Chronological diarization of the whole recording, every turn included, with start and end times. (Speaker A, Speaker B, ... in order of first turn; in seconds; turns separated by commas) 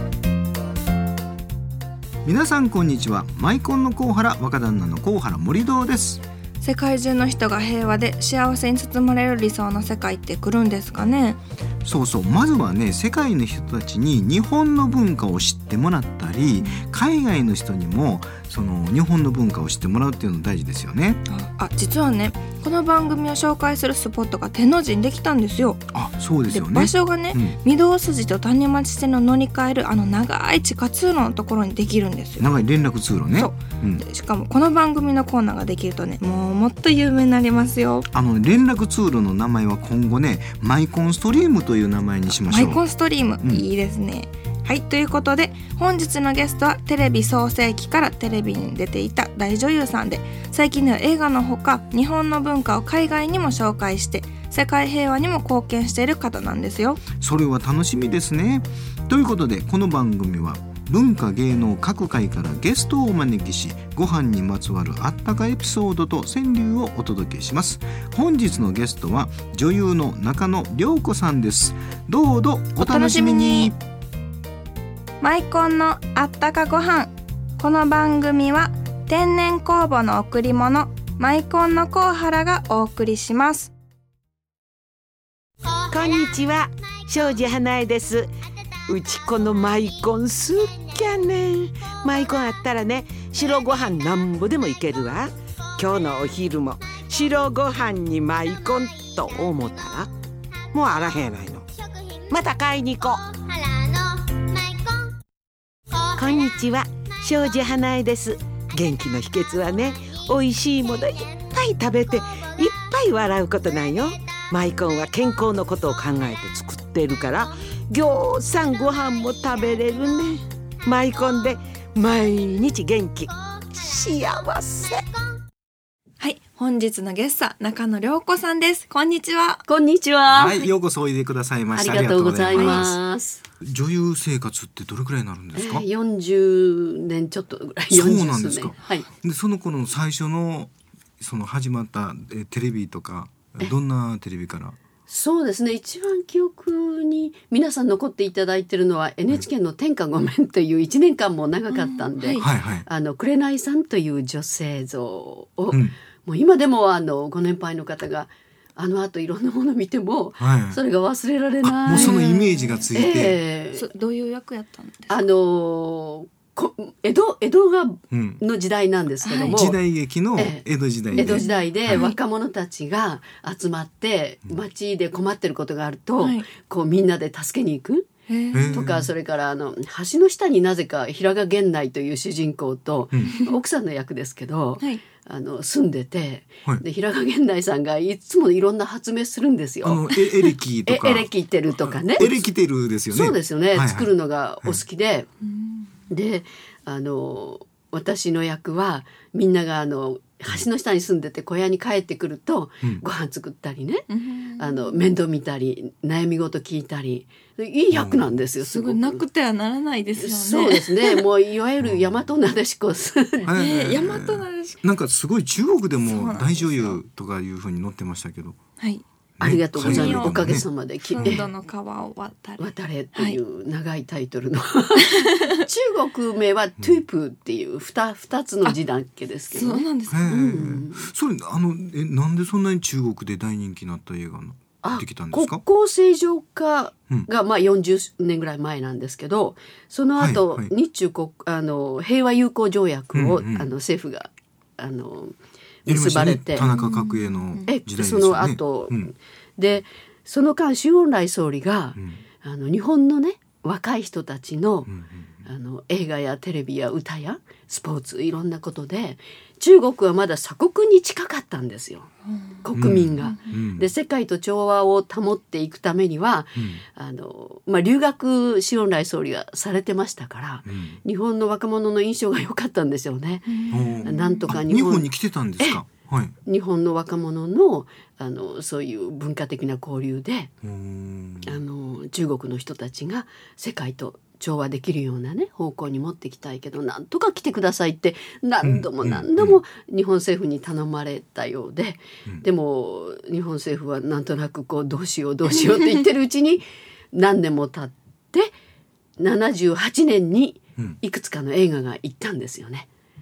Speaker A: 2.2-6.2, Speaker B: 6.6-11.4, Speaker A: 11.8-21.2, Speaker B: 16.6-16.9, Speaker B: 21.3-25.9, Speaker A: 25.9-27.6, Speaker B: 26.5-32.5, Speaker A: 32.4-34.0, Speaker B: 33.3-38.1, Speaker A: 38.1-42.8, Speaker B: 42.4-57.0, Speaker A: 43.4-43.7, Speaker A: 57.2-73.8, Speaker B: 72.8-73.7, Speaker B: 75.2-83.7, Speaker C: 85.9-88.3, Speaker C: 88.9-100.1, Speaker C: 100.7-101.7, Speaker C: 102.3-103.4, Speaker C: 106.1-125.0, Speaker B: 126.2-129.7, Speaker D: 129.7-130.7, Speaker A: 130.3-133.0, Speaker D: 131.7-133.4, Speaker B: 132.5-132.8, Speaker A: 133.6-135.8, Speaker D: 135.6-139.1, Speaker A: 137.9-144.8, Speaker D: 145.1-162.3, Speaker B: 151.7-152.5, Speaker A: 152.4-152.8, Speaker A: 155.7-156.0, Speaker A: 160.4-160.8, Speaker A: 161.6-163.4, Speaker B: 161.9-162.9, Speaker D: 162.9-163.9, Speaker B: 163.7-165.2, Speaker D: 165.1-169.8, Speaker A: 168.1-168.4, Speaker B: 169.2-169.6, Speaker A: 169.5-172.1, Speaker D: 170.3-178.1, Speaker B: 171.2-172.2, Speaker B: 176.2-176.5, Speaker B: 178.3-178.8, Speaker A: 178.5-179.1, Speaker D: 178.7-190.1, Speaker B: 183.2-183.6, Speaker A: 189.8-191.3, Speaker D: 190.9-192.3, Speaker A: 191.8-194.8, Speaker D: 193.1-195.3, Speaker B: 195.4-195.9, Speaker D: 196.1-204.1, Speaker B: 204.1-205.1, Speaker D: 204.6-209.3, Speaker A: 207.9-208.4, Speaker B: 208.6-211.2, Speaker D: 210.2-213.5, Speaker A: 211.8-212.3, Speaker A: 213.4-218.6, Speaker B: 213.5-214.8, Speaker B: 216.0-217.0, Speaker B: 218.8-219.0, Speaker A: 219.4-220.7, Speaker D: 219.4-221.5, Speaker B: 219.8-223.4, Speaker A: 221.2-221.5, Speaker D: 222.6-231.1, Speaker B: 225.2-225.5, Speaker B: 229.5-230.4, Speaker A: 230.1-235.6, Speaker D: 234.8-246.7, Speaker A: 240.2-240.7, Speaker A: 243.1-243.7, Speaker A: 245.9-249.1, Speaker B: 246.6-247.7, Speaker D: 247.7-254.9, Speaker A: 252.0-252.2, Speaker A: 254.9-255.4, Speaker D: 255.5-262.1, Speaker B: 262.3-262.6, Speaker D: 262.6-275.8, Speaker A: 262.7-263.9, Speaker B: 263.2-263.5, Speaker A: 270.7-271.0, Speaker B: 273.5-274.6, Speaker A: 273.7-276.4, Speaker D: 276.5-280.5, Speaker A: 280.6-281.6, Speaker D: 281.4-298.5, Speaker A: 288.6-289.6, Speaker D: 299.2-302.9